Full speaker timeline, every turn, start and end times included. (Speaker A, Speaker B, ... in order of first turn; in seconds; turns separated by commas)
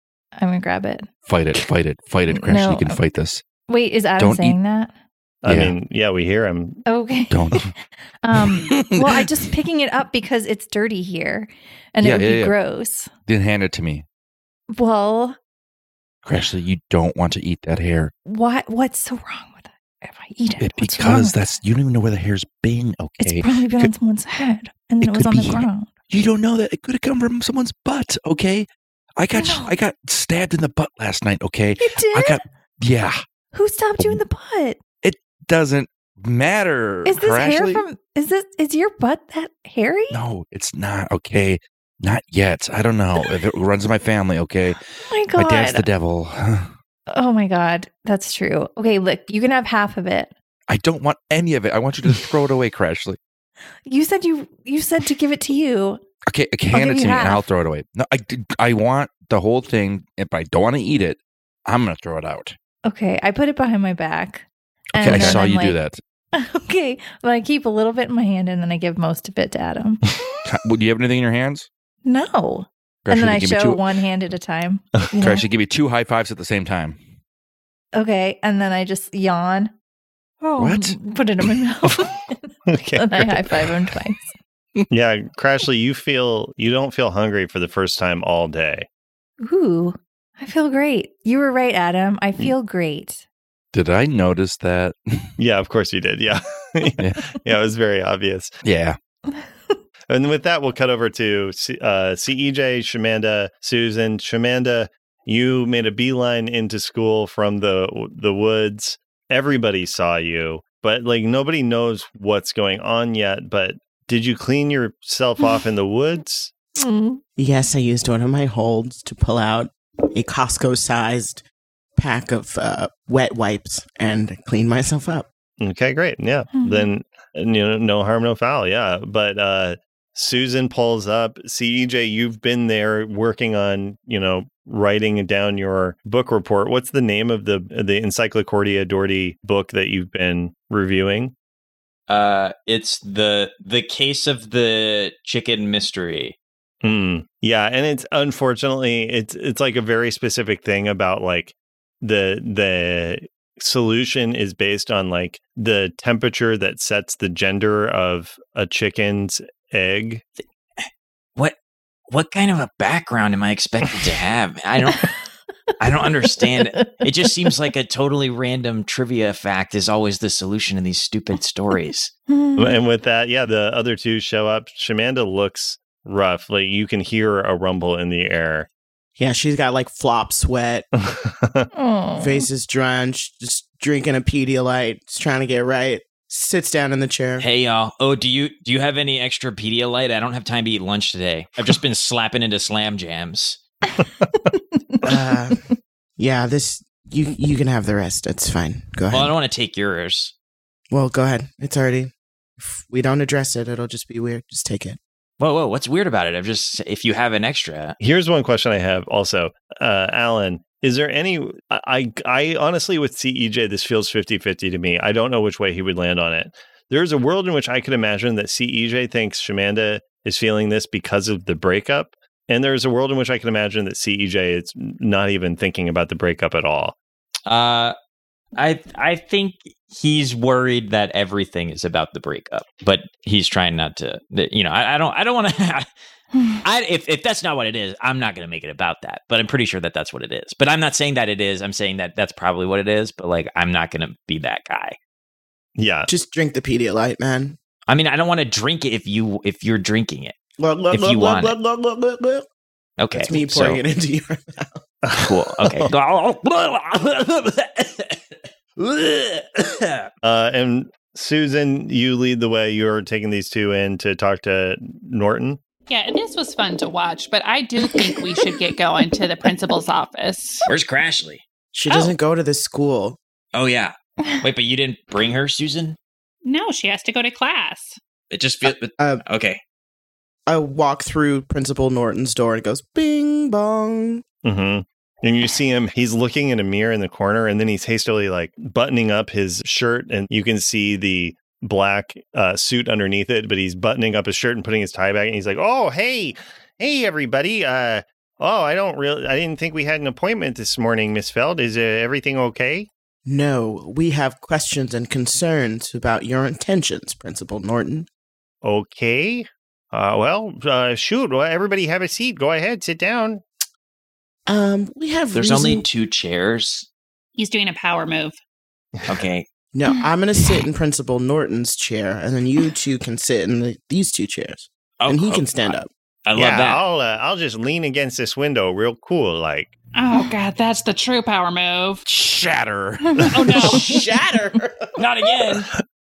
Speaker A: 0.4-1.1, Speaker B: 1.2-3.4, Speaker A: 2.3-3.0, Speaker A: 3.7-4.9, Speaker B: 4.2-4.6, Speaker C: 5.4-6.8, Speaker B: 5.5-5.8, Speaker A: 6.9-13.1, Speaker B: 7.3-7.7, Speaker B: 8.4-9.3, Speaker B: 12.0-12.6, Speaker B: 13.3-14.1, Speaker A: 14.7-15.4, Speaker B: 16.2-18.1, Speaker A: 18.2-21.6, Speaker B: 20.6-23.9, Speaker A: 23.2-26.0, Speaker B: 25.0-33.2, Speaker A: 29.3-29.7, Speaker A: 31.8-32.4, Speaker A: 33.5-34.8, Speaker B: 35.0-37.8, Speaker A: 37.0-40.2, Speaker B: 40.1-46.7, Speaker A: 45.0-45.9, Speaker A: 47.1-50.3, Speaker B: 50.7-53.2, Speaker A: 53.9-56.0, Speaker B: 56.3-62.6, Speaker A: 56.7-57.5, Speaker A: 62.9-65.8, Speaker B: 65.0-66.0, Speaker A: 66.3-70.2, Speaker B: 70.5-71.7, Speaker A: 72.0-75.5, Speaker B: 73.1-73.8, Speaker C: 75.0-75.3, Speaker B: 75.2-77.0, Speaker A: 77.9-79.7, Speaker A: 80.4-84.3, Speaker B: 80.6-81.0, Speaker C: 82.7-83.7, Speaker C: 84.9-88.9, Speaker A: 89.4-93.2, Speaker B: 93.7-95.3, Speaker C: 95.4-98.6, Speaker B: 98.6-99.0, Speaker A: 99.3-99.8, Speaker C: 100.1-116.6, Speaker A: 116.8-117.2, Speaker D: 117.4-121.4, Speaker D: 122.0-125.3, Speaker C: 125.6-141.3, Speaker A: 126.5-126.9, Speaker E: 142.1-146.4, Speaker C: 146.8-160.2, Speaker E: 162.1-165.1, Speaker E: 165.8-172.1, Speaker A: 166.4-167.1, Speaker A: 172.3-172.8, Speaker C: 172.6-178.7, Speaker D: 179.2-180.9, Speaker C: 181.0-181.7, Speaker A: 181.7-182.5, Speaker D: 182.2-187.5, Speaker E: 187.4-193.6, Speaker D: 195.0-195.6, Speaker D: 196.2-199.3, Speaker E: 199.1-200.3, Speaker D: 200.9-205.0, Speaker E: 205.4-208.0, Speaker C: 208.0-227.0, Speaker E: 227.5-227.9, Speaker E: 228.6-235.9, Speaker E: 236.6-245.0, Speaker C: 245.8-246.1, Speaker D: 246.1-247.6, Speaker E: 247.9-250.3, Speaker D: 250.6-252.5, Speaker E: 250.9-251.6, Speaker E: 253.0-253.8, Speaker D: 253.1-254.8, Speaker C: 255.1-255.9, Speaker E: 255.2-260.1, Speaker C: 260.2-265.6, Speaker F: 265.9-270.7, Speaker E: 270.7-271.4, Speaker D: 271.7-273.2, Speaker F: 271.9-272.1, Speaker E: 273.5-276.0, Speaker F: 276.4-278.0, Speaker E: 278.3-279.6, Speaker D: 278.7-279.2, Speaker D: 280.5-284.2, Speaker C: 284.4-302.9, Speaker D: 303.2-308.1, Speaker C: 308.6-313.4, Speaker D: 314.5-315.9, Speaker E: 315.3-316.9, Speaker F: 317.4-318.4, Speaker E: 319.1-319.5, Speaker D: 319.7-325.9, Speaker E: 325.0-326.8, Speaker C: 326.4-329.7, Speaker F: 329.9-332.0, Speaker B: 332.1-333.5, Speaker F: 333.3-333.9, Speaker E: 333.6-334.1, Speaker D: 333.7-334.9, Speaker E: 335.0-335.7